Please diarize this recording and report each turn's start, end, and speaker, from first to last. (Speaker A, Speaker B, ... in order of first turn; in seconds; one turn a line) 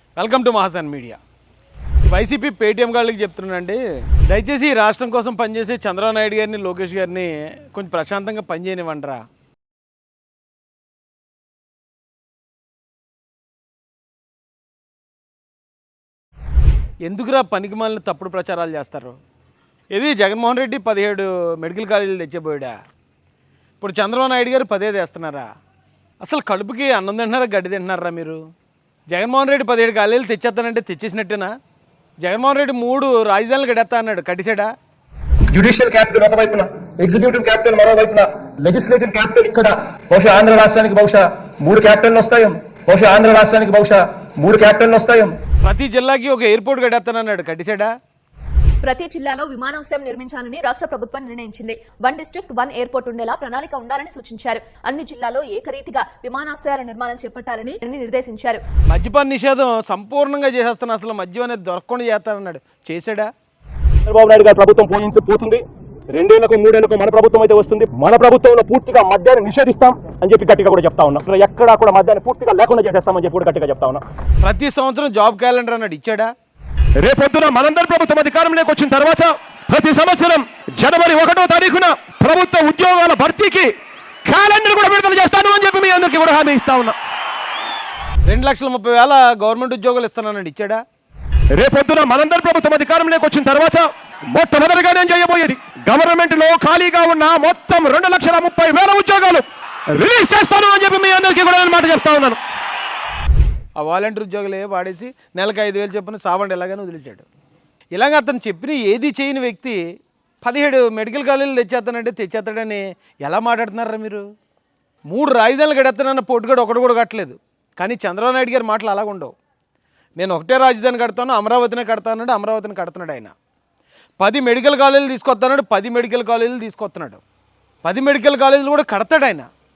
Speaker A: 0.1-1.2
Speaker A: 2.0-9.2
Speaker A: 17.0-19.2
Speaker A: 19.9-22.7
Speaker A: 23.8-25.5
Speaker A: 26.2-28.4
Speaker A: 29.1-31.5
Speaker A: 32.2-34.7
Speaker B: 35.5-45.3
Speaker A: 45.6-47.9
Speaker C: 48.8-58.6
Speaker A: 58.9-63.3
Speaker B: 64.1-74.0
Speaker A: 74.4-76.3
Speaker D: 77.0-83.7
Speaker D: 84.2-87.0
Speaker A: 88.2-90.8
Speaker D: 91.5-102.4
Speaker A: 103.8-107.2
Speaker A: 107.9-109.8
Speaker A: 110.4-114.2
Speaker A: 115.1-119.3
Speaker A: 120.2-123.3
Speaker A: 124.2-127.2
Speaker A: 127.8-129.5